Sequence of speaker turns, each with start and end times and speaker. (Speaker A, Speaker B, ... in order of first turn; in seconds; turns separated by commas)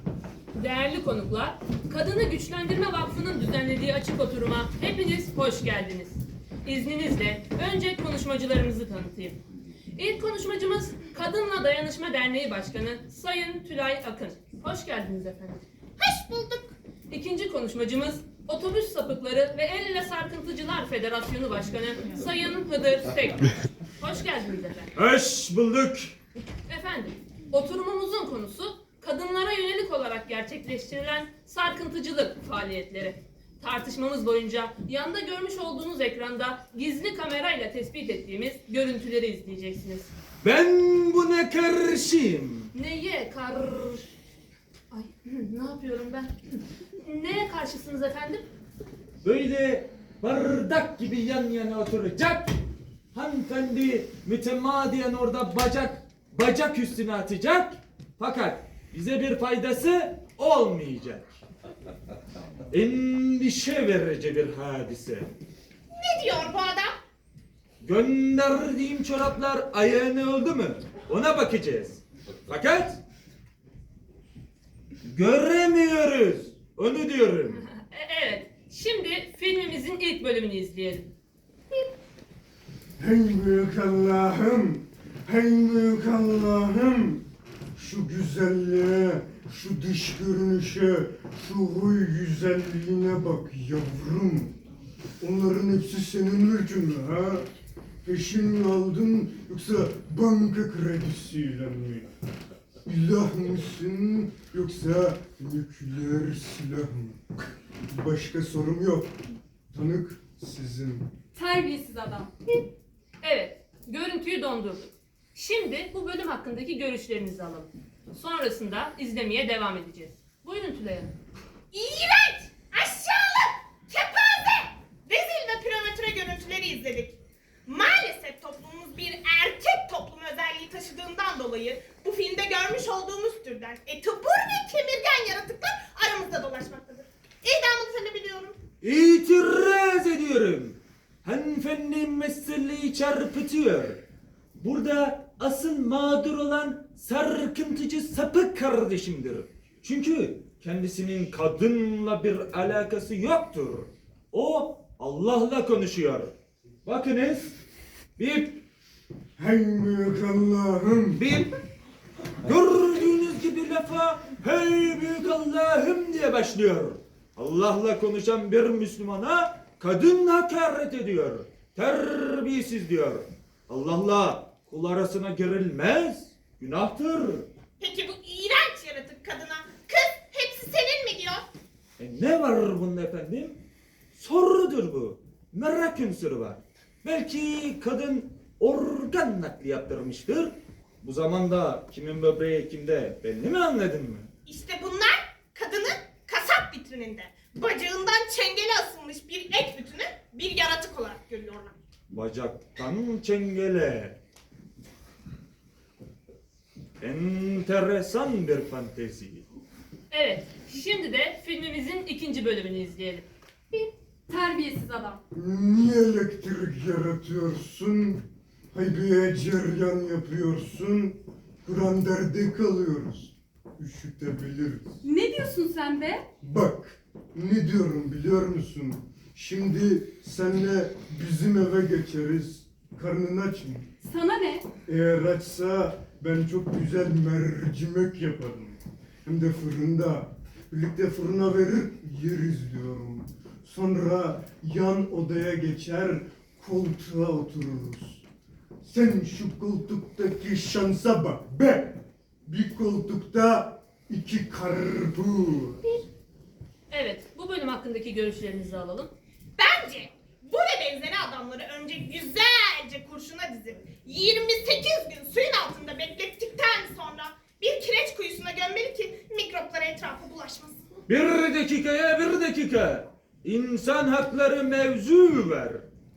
Speaker A: 0.5-9.4, Speaker A: 9.9-15.6, Speaker B: 16.0-16.7, Speaker A: 17.1-24.9, Speaker C: 24.9-26.1, Speaker A: 26.7-40.1, Speaker C: 40.4-42.7, Speaker A: 42.7-44.1, Speaker A: 44.9-48.4, Speaker C: 49.2-52.5, Speaker C: 53.1-61.3, Speaker C: 62.7-65.3, Speaker B: 65.9-66.9, Speaker C: 67.8-73.0, Speaker C: 75.0-77.6, Speaker A: 77.6-81.1, Speaker D: 83.0-94.6, Speaker D: 95.2-97.5, Speaker D: 98.0-102.1, Speaker D: 102.8-107.2, Speaker D: 107.9-109.2, Speaker D: 109.7-111.1, Speaker E: 111.3-112.3, Speaker A: 113.2-121.1, Speaker B: 121.7-138.6, Speaker C: 138.8-144.0, Speaker C: 144.6-156.3, Speaker C: 156.8-157.6, Speaker C: 158.2-158.6, Speaker D: 159.4-161.2, Speaker C: 161.2-161.5, Speaker C: 162.4-177.5, Speaker B: 177.8-181.5, Speaker C: 182.0-183.6, Speaker C: 184.1-194.3, Speaker B: 194.4-201.7, Speaker C: 202.1-204.2, Speaker C: 207.0-209.4, Speaker A: 210.1-213.2, Speaker E: 213.7-215.2, Speaker D: 215.3-224.9, Speaker E: 225.0-226.2, Speaker D: 226.4-233.9, Speaker E: 234.0-234.6, Speaker D: 234.8-248.2, Speaker D: 248.8-255.8, Speaker A: 256.9-259.1, Speaker B: 259.6-270.8, Speaker C: 271.1-275.8